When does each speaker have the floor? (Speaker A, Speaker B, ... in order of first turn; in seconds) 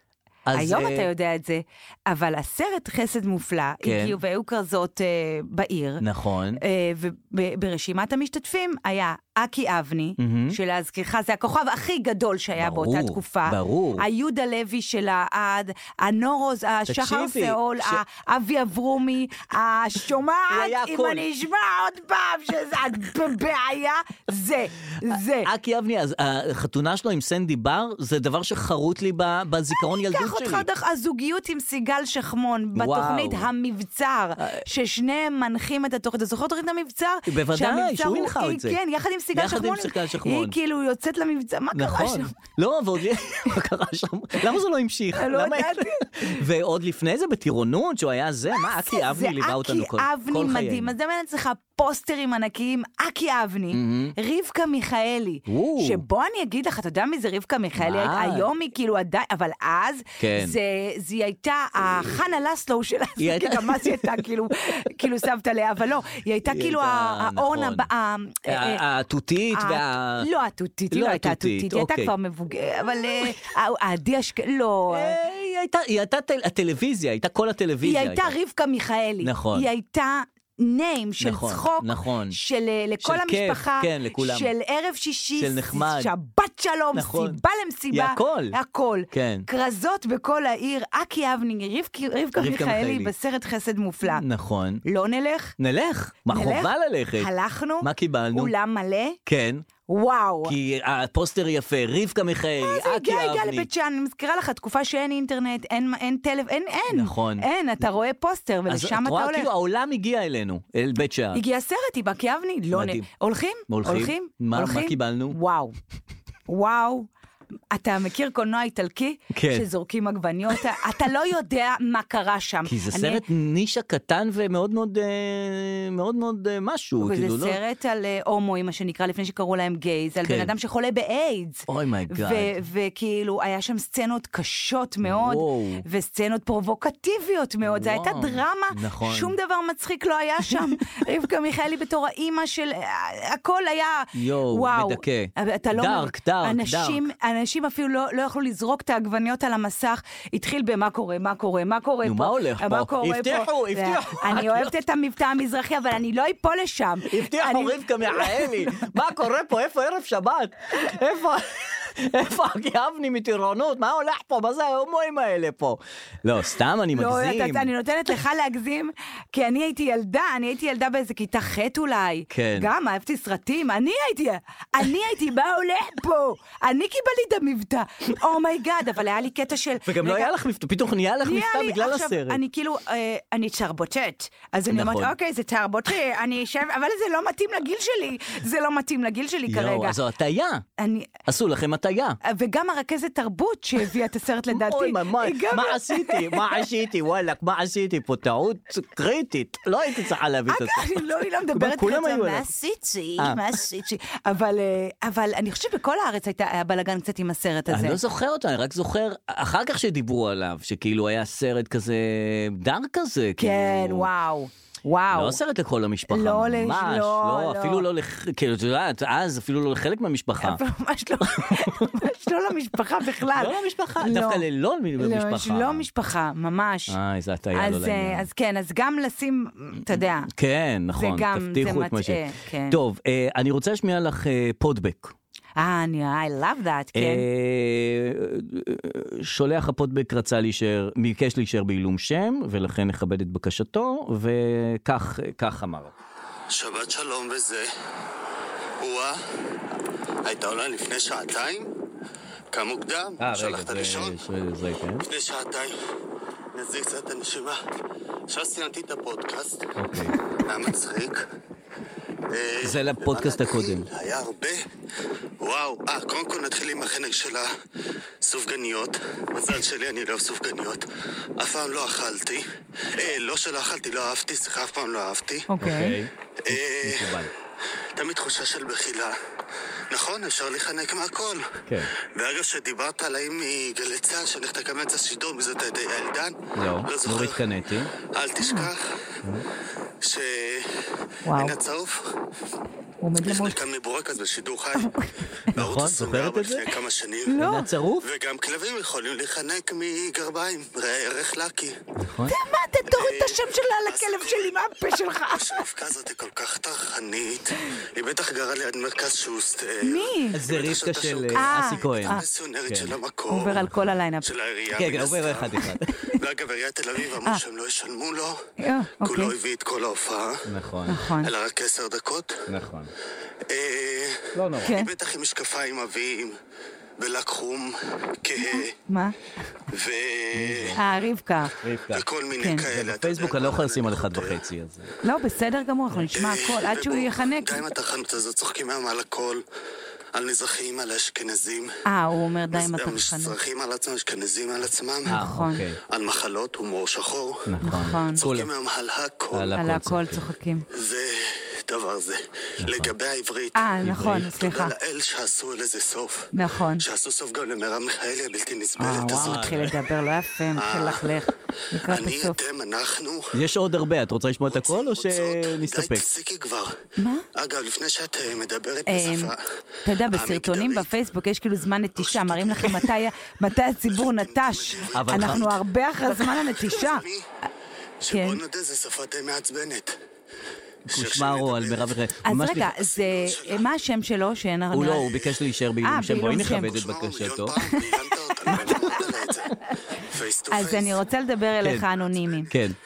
Speaker A: 0.5-1.1, 3.8-4.2, 6.0-6.6, 10.2-10.6, 12.6-14.0, 16.9-18.0, 20.5-21.2, 25.4-30.7, 32.7-33.5, 34.4-34.6, 37.3-38.8, 39.3-40.5, 41.7-50.9, 53.7-54.1, 55.5-56.0, 57.8-58.5, 60.2-60.6, 63.2-64.2, 66.4-67.9, 68.5-70.3, 70.9-72.1, 74.9-78.3, 79.2-79.7, 81.2-82.4, 83.0-84.5, 85.4-86.1, 86.9-88.6, 89.1-89.5, 92.3-93.1, 94.0-94.8, 95.6-97.3, 97.8-98.5, 99.2-99.6, 100.4-103.7, 106.9-107.5, 108.7-111.4, 112.7-113.1, 113.7-115.4, 119.3-119.7, 122.6-127.6, 130.2-130.5, 131.7-132.5, 135.0-135.8, 137.6-139.3, 144.1-147.0, 152.0-154.8, 157.0-167.7, 172.3-172.7, 179.8-182.4, 184.7-185.1, 189.5-190.6, 191.2-192.2, 194.5-202.5, 207.7-214.1, 215.1-220.6, 221.2-221.9, 223.3-225.8, 226.9-228.3, 229.9-235.1, 236.9-245.9, 253.2-255.1, 259.8-260.2, 262.6-263.9, 275.6-277.3, 281.6-281.9, 286.5-287.9, 295.5-296.7, 297.4-298.1, 302.0-302.4, 310.3-313.0, 314.7-315.9, 320.4-321.0, 322.5-322.9, 324.3-324.8, 330.3-330.8, 331.6-332.0, 332.6-334.9, 345.1-345.8, 347.4-348.5, 349.3-350.2, 352.6-352.9, 353.8-354.3, 358.9-359.7, 363.3-366.1, 374.9-375.5, 380.9-382.8, 384.7-387.6, 392.5-392.8
Speaker B: 0.5-6.0, 6.6-25.5, 29.8-42.3, 45.1-46.3, 48.5-68.8, 69.5-75.2, 77.8-94.2, 94.8-95.5, 96.3-99.2, 99.9-100.5, 102.6-109.5, 111.3-115.8, 116.5-117.1, 117.7-123.2, 127.0-158.9, 166.9-180.3, 181.2-190.0, 190.8-191.1, 192.2-196.6, 200.5-208.0, 213.4-215.4, 216.1-217.8, 220.4-224.4, 225.0-227.0, 227.5-230.3, 230.9-232.8, 235.6-237.2, 275.5-276.0, 288.4-288.7, 291.2-291.6, 293.0-293.6, 294.8-295.1, 297.3-297.7, 302.2-305.6, 309.8-310.4, 311.3-312.2, 313.3-314.3, 318.6-319.3, 320.9-321.3, 324.6-324.9, 328.4-329.1, 330.7-331.6, 332.4-332.6, 335.0-337.6, 341.8-343.4, 345.1-345.6, 347.6-348.2, 349.5-350.6, 353.5-354.7, 356.3-356.8, 358.8-362.4, 367.0-367.2, 368.9-369.3, 369.8-377.0, 378.1-378.4, 382.2-385.1, 385.8-386.8, 388.4-389.0, 390.5-392.5
Speaker C: 246.5-247.7, 248.8-249.2, 250.2-251.7, 252.5-254.2, 255.0-255.7, 256.5-257.6, 258.3-259.7, 260.4-261.2, 262.3-264.6, 265.4-267.5, 268.2-270.8, 271.4-275.5, 276.4-277.2, 277.9-279.1, 279.9-287.4, 288.0-288.8, 290.0-292.1, 293.2-297.4, 298.0-301.7, 302.9-313.6, 314.2-318.4, 319.0-320.5, 321.2-322.4, 323.5-326.4, 327.0-328.7, 329.7-330.8, 331.9-334.4, 336.1-339.4, 340.1-341.7, 342.5-345.2, 345.9-347.5, 348.1-349.6, 350.7-359.7, 360.5-361.2, 361.8-363.4, 364.5-366.8, 367.3-369.4, 370.1-370.9, 372.0-373.0, 373.9-377.2, 378.0-380.0, 380.9-382.0, 382.7-383.6, 384.9-385.3, 386.5-391.0, 392.0-392.5